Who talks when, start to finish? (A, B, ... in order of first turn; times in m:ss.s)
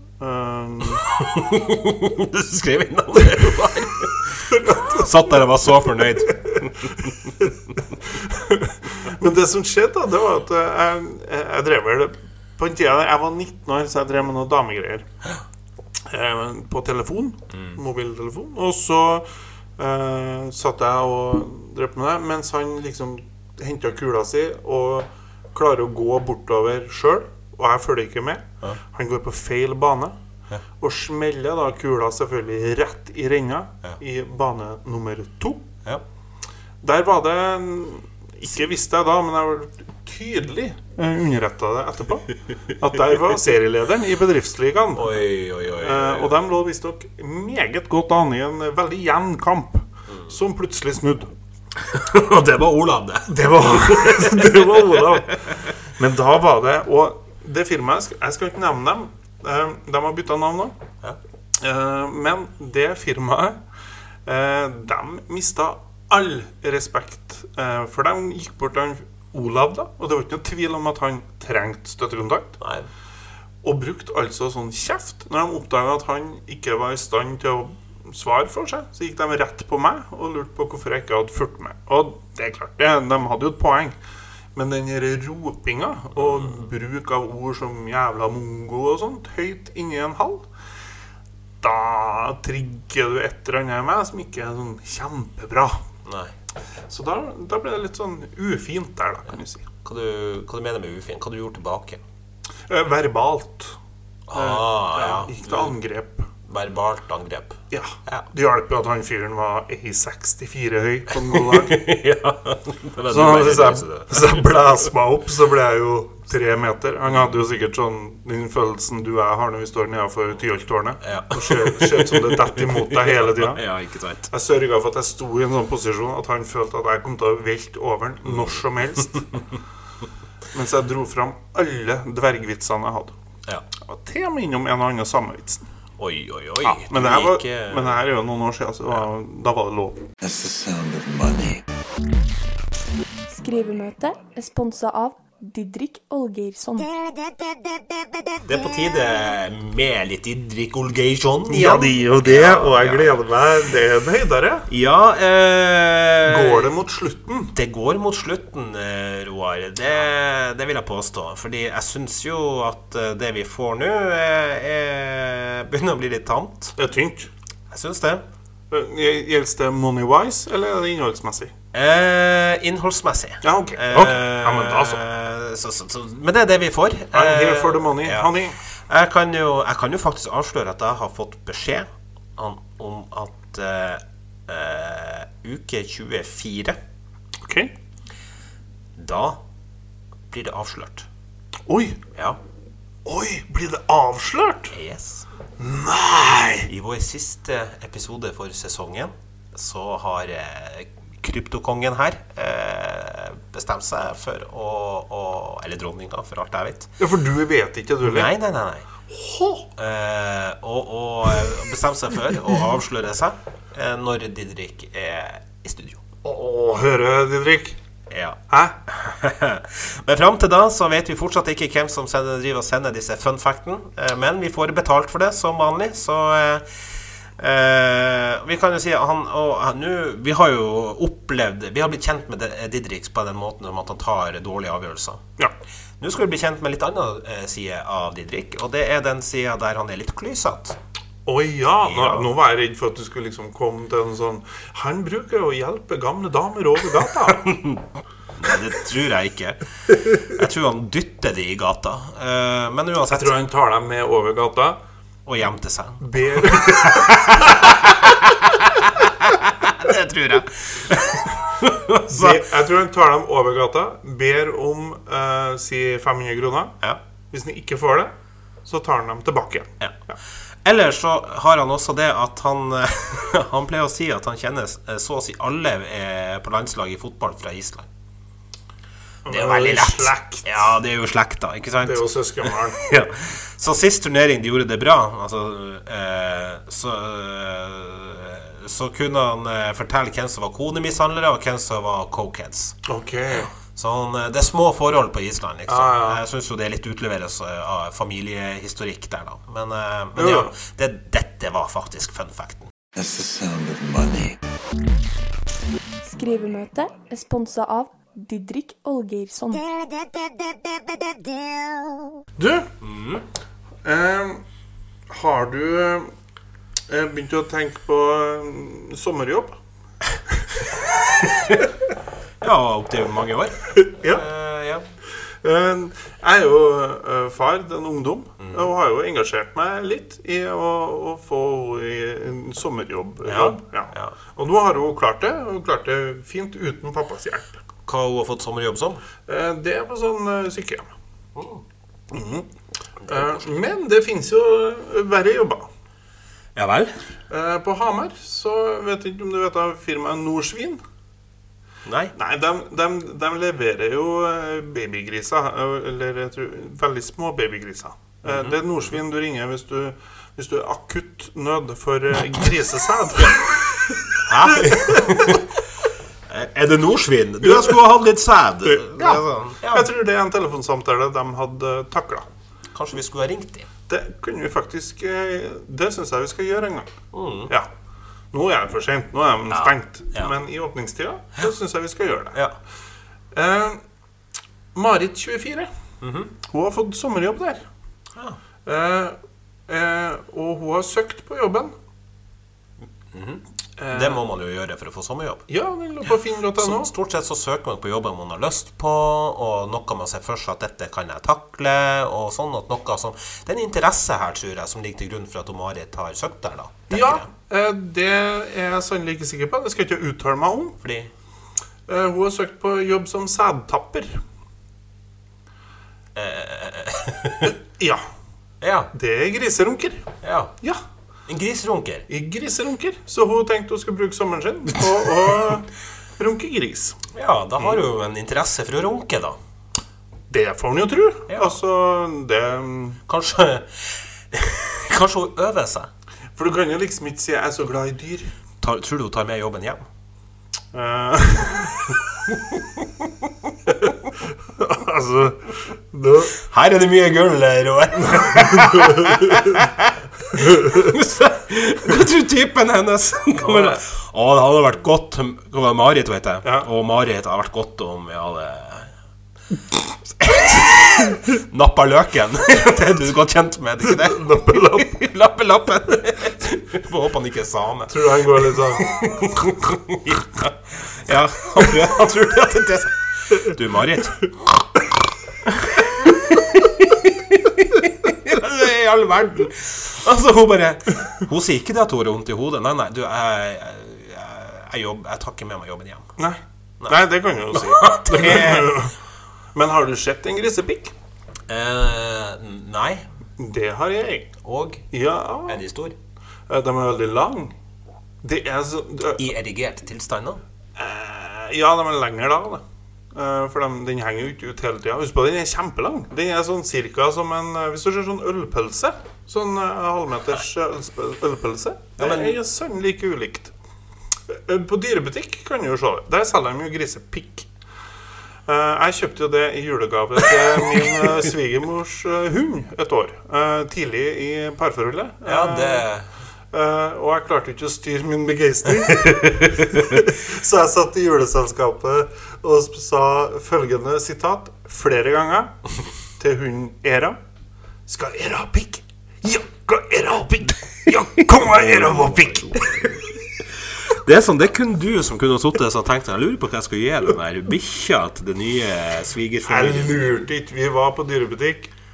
0:00.2-0:01.0 A
0:01.1-0:07.3 B
0:04.4-0:05.4 A
0:06.3-0:15.1 A
0:16.1-0:19.3 A
0:17.5-0:17.8 B
0:19.8-0:30.2 A
0:30.8-0:35.7 A
0:36.8-0:45.2 A
0:45.0-0:46.4 B
0:45.8-0:51.3 A
0:51.8-0:55.6 B
0:53.3-0:55.4 A
0:56.0-1:00.8 A
1:01.6-1:03.6 A
1:04.3-1:12.6 A
1:12.6-1:12.9 B
1:13.6-1:24.0 A
1:24.6-1:30.5 A
1:31.6-1:35.8 A
1:36.0-1:36.3 B
1:36.9-1:39.7 A
1:39.8-1:42.0 B
1:42.7-1:43.8 A
1:44.3-1:45.8 B
1:44.3-1:46.3 A
1:46.5-1:48.3 B
1:47.7-1:51.8 A
1:51.2-1:54.7 B
1:53.1-2:03.6 A
2:01.0-2:04.3 B
2:04.3-2:09.4 A
2:08.2-2:08.6 B
2:10.5-2:13.2 A
2:13.8-2:15.6 A
2:16.0-2:18.0 B
2:16.6-2:20.0 A
2:20.2-2:21.6 C
2:23.3-2:26.9 D
2:28.4-2:33.2 B
2:31.5-2:34.7 A
2:34.7-2:36.7 B
2:36.2-2:37.6 A
2:37.5-2:46.8 B
2:46.8-2:47.3 A
2:47.7-2:48.2 B
2:48.7-2:51.5 A
2:51.7-2:58.4 B
2:53.4-2:55.0 A
2:57.1-2:58.6 A
2:58.9-3:06.8 B
3:07.4-3:07.7 A
3:09.0-3:09.4 B
3:10.3-3:11.1 B
3:11.7-3:12.0 A
3:13.0-3:14.8 A
3:14.7-3:15.3 B
3:15.6-3:16.7 A
3:16.7-3:26.9 B
3:27.0-3:28.3 A
3:28.0-3:28.9 B
3:29.1-3:29.7 A
3:29.8-3:36.0 B
3:36.2-3:37.8 A
3:38.1-3:46.7 B
3:38.5-3:38.8 A
3:47.4-3:55.2 B
3:56.0-4:00.8 B
4:01.3-4:07.5 A
4:01.8-4:02.3 B
4:07.3-4:13.4 B
4:13.1-4:14.8 A
4:15.2-4:22.4 B
4:16.0-4:17.9 A
4:22.1-4:26.8 A
4:27.3-4:28.1 A
4:28.6-4:30.2 A
4:30.6-4:37.9 B
4:39.3-4:40.7 A
4:39.3-5:02.7 B
4:41.8-4:42.8 A
4:52.9-4:53.5 A
4:55.7-4:56.2 A
5:00.2-5:00.5 A
5:03.0-5:04.4 C
5:06.0-5:09.7 D
5:12.4-5:12.7 A
5:12.8-5:13.2 B
5:13.8-5:14.4 A
5:15.1-5:16.1 A
5:16.9-5:19.6 A
5:22.4-5:24.9 B
5:23.8-5:24.3 A
5:25.4-5:37.6 A
5:28.4-5:28.7 B
5:33.2-5:34.2 B
5:37.9-5:39.0 B
5:39.3-5:40.9 A
5:41.4-5:41.6 B
5:42.1-5:42.5 A
5:43.0-5:43.6 B
5:43.1-5:45.7 A
5:46.6-5:47.0 B
5:47.3-5:50.8 A
5:51.8-5:52.1 B
5:52.2-6:05.4 A
5:58.3-5:58.6 B
6:04.2-6:05.5 B
6:06.3-6:09.9 B
6:07.4-6:07.8 A
6:08.6-6:12.3 A
6:12.7-6:13.7 B
6:13.9-6:16.9 A
6:17.1-6:17.5 B
6:18.3-6:22.4 A
6:19.5-6:20.3 B
6:23.3-6:23.8 A
6:24.8-6:25.7 A
6:26.0-6:26.3 B
6:26.4-6:27.6 A
6:28.6-6:29.2 A
6:29.7-6:31.8 A
6:33.1-6:35.5 B
6:33.8-6:34.2 A
6:35.5-6:36.9 A
6:36.6-6:47.3 B
6:46.9-6:50.8 A
6:50.8-6:51.1 B
6:51.9-6:54.2 A
6:56.2-6:57.6 B
6:57.4-6:58.0 A
6:58.6-6:58.9 B
6:58.9-7:00.1 A
7:00.2-7:00.5 B
7:01.3-7:02.1 B
7:02.1-7:07.0 A
7:07.1-7:09.4 B
7:10.3-7:13.0 A
7:11.3-7:11.6 B
7:13.1-7:15.9 B
7:16.4-7:18.3 A
7:18.6-7:19.9 B
7:20.7-7:21.8 A
7:22.3-7:22.6 B
7:24.5-7:26.4 A
7:26.4-7:38.9 B
7:28.7-7:29.1 A
7:33.4-7:33.8 A
7:36.4-7:36.7 A
7:40.2-7:54.6 B
7:44.0-7:44.9 A
7:47.9-7:48.9 A
7:55.4-8:06.1 B
8:06.2-8:08.9 A
8:07.5-8:08.9 B
8:09.6-8:10.9 A
8:11.5-8:13.1 B
8:13.4-8:14.3 A
8:14.4-8:14.9 B
8:14.9-8:15.6 A
8:15.5-8:16.0 B
8:16.5-8:17.5 A
8:18.2-8:19.2 A
8:19.2-8:20.4 B
8:20.8-8:22.6 A
8:23.1-8:33.5 A
8:32.0-8:32.4 B
8:34.3-8:37.5 A
8:38.5-8:45.9 A
8:45.2-8:46.1 B
8:46.5-8:55.6 A
8:48.9-8:49.7 B
8:56.2-8:57.2 A
8:57.9-9:03.0 A
9:01.2-9:10.3 B
9:09.4-9:11.7 A